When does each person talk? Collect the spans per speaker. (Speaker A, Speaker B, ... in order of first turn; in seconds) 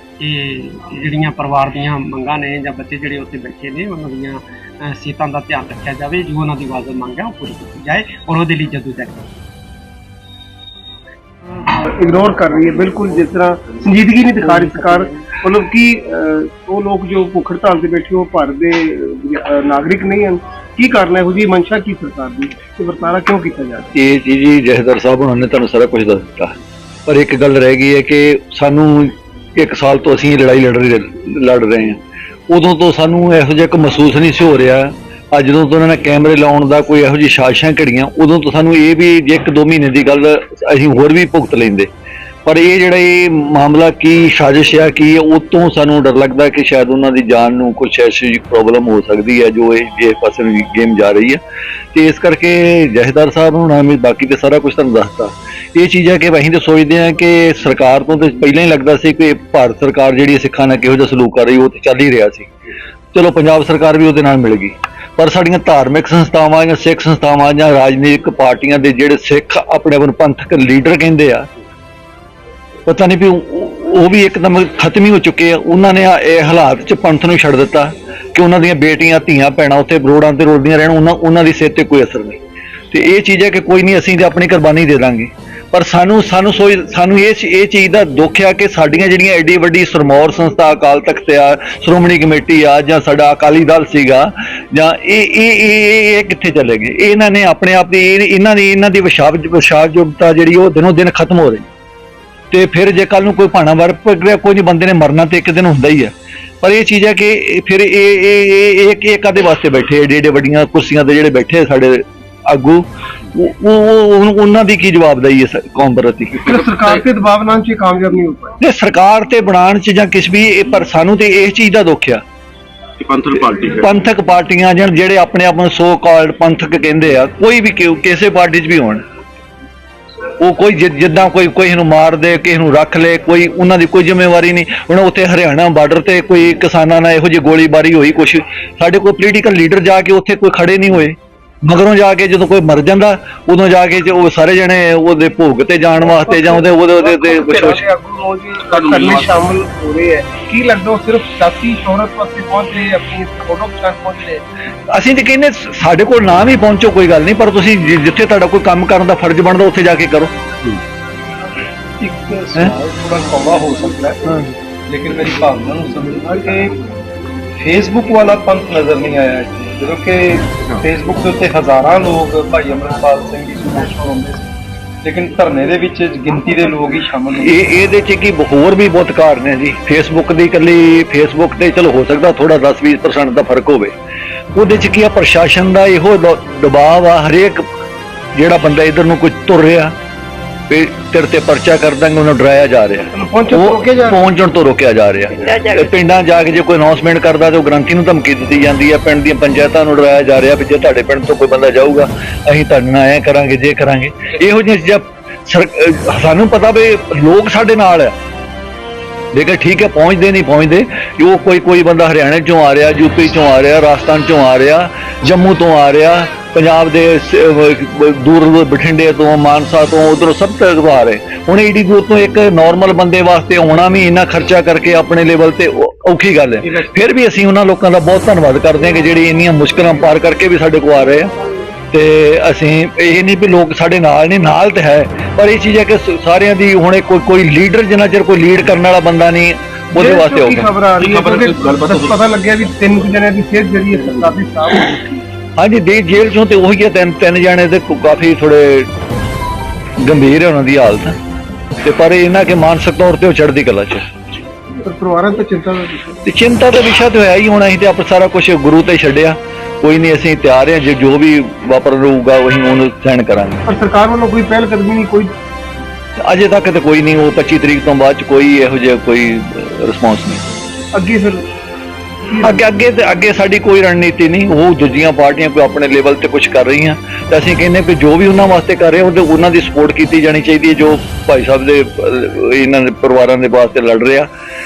Speaker A: 0.2-9.3, 14.3-15.2
Speaker B: 11.8-23.9, 116.5-118.5, 146.1-154.4, 193.1-194.2, 239.9-245.2, 254.8-256.2, 263.7-265.3, 270.9-271.4, 272.3-272.6
Speaker C: 23.9-26.6, 27.1-41.9, 42.5-51.4, 51.9-62.5, 63.1-71.5, 72.9-82.4, 82.9-101.7, 102.5-116.4, 118.6-122.2, 123.5-129.0, 130.4-147.8, 154.9-160.3, 177.4-183.9, 184.6-187.6, 188.4-189.9, 190.7-208.1, 209.3-231.3, 231.9-240.7, 245.6-248.9, 250.0-251.2, 251.8-254.1, 256.2-263.7, 266.2-270.4, 272.4-284.3
Speaker D: 116.4-117.0, 123.0-124.0, 148.7-149.5, 241.0-243.0
Speaker E: 162.0-166.8, 167.6-174.5, 175.0-177.6